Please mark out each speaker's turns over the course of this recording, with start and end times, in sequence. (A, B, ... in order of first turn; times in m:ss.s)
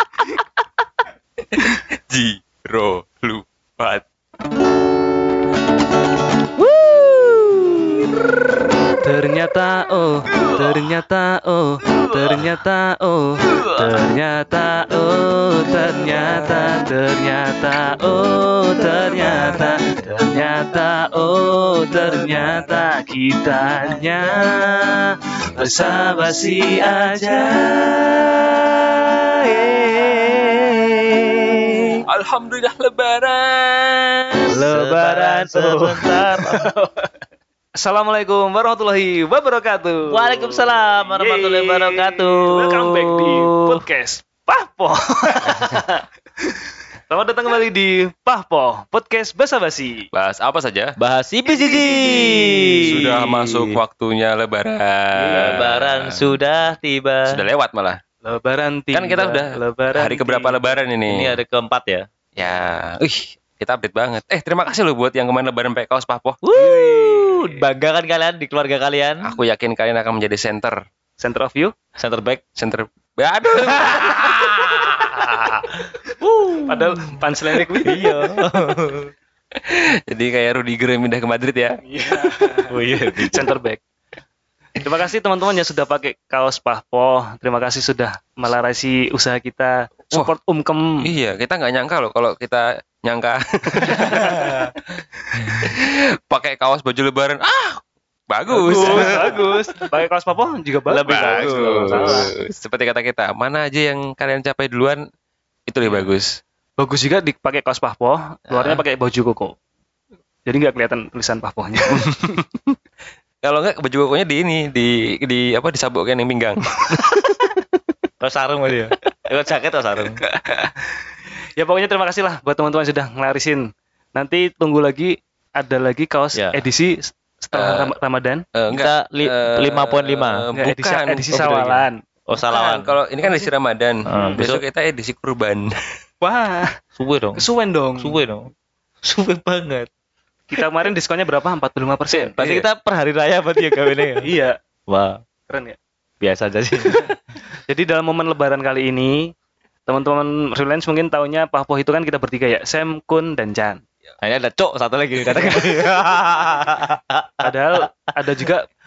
0:01.5-0:04.0 A
0:06.6-0:07.7 B
0:09.0-0:28.5 C
0:29.1-0:32.0 C
0:32.1-0:34.5 A
0:34.5-0:36.7 B
0:34.6-0:37.1 C
0:37.8-0:46.0 C
0:40.1-0:43.8 B
0:47.1-0:50.1 C
0:50.1-0:51.0 A
0:51.0-0:53.8 B
0:51.5-0:53.1 C
0:52.8-0:56.3 A
0:55.2-0:55.6 C
0:55.3-0:57.4 B
0:57.3-0:58.0 A
0:58.2-1:00.6 C
0:58.9-1:01.4 A
1:01.1-1:02.1 B
1:02.4-1:06.4 A
1:06.4-1:09.4 B
1:06.5-1:07.6 C
1:09.2-1:10.8 A
1:11.2-1:11.7 C
1:12.0-1:12.4 B
1:12.6-1:15.0 A
1:13.5-1:15.1 B
1:15.1-1:15.6 C
1:16.2-1:17.1 B
1:16.7-1:18.2 C
1:17.8-1:19.1 B
1:19.6-1:21.8 A
1:21.9-1:22.7 C
1:22.7-1:23.5 B
1:23.3-1:23.8 C
1:24.8-1:31.0 C
1:31.0-1:34.6 A
1:33.8-1:34.7 C
1:35.6-1:39.8 A
1:38.5-1:42.3 C
1:38.5-1:39.4 B
1:40.9-1:42.3 B
1:41.1-1:45.0 A
1:45.7-1:46.3 A
1:46.8-1:49.5 C
1:50.5-1:52.3 C
1:53.4-1:57.0 A
1:58.2-2:00.2 B
2:00.3-2:00.8 C
2:01.6-2:08.4 C
2:06.4-2:06.6 B
2:07.5-2:07.9 A
2:08.6-2:11.8 A
2:08.7-2:10.4 B
2:10.6-2:12.0 C
2:11.3-2:11.7 B
2:12.3-2:12.9 B
2:12.5-2:15.8 A
2:14.1-2:14.6 B
2:14.1-2:14.4 C
2:16.2-2:16.7 C
2:17.0-2:17.5 B
2:17.4-2:18.2 C
2:18.0-2:18.5 B
2:19.0-2:19.9 B
2:20.5-2:22.6 C
2:22.1-2:24.3 B
2:24.2-2:24.6 C
2:24.9-2:25.2 B
2:25.5-2:25.8 C
2:26.2-2:27.2 B
2:27.6-2:29.3 C
2:29.9-2:33.8 C
2:34.2-2:37.8 B
2:35.3-2:35.8 C
2:37.4-2:38.7 C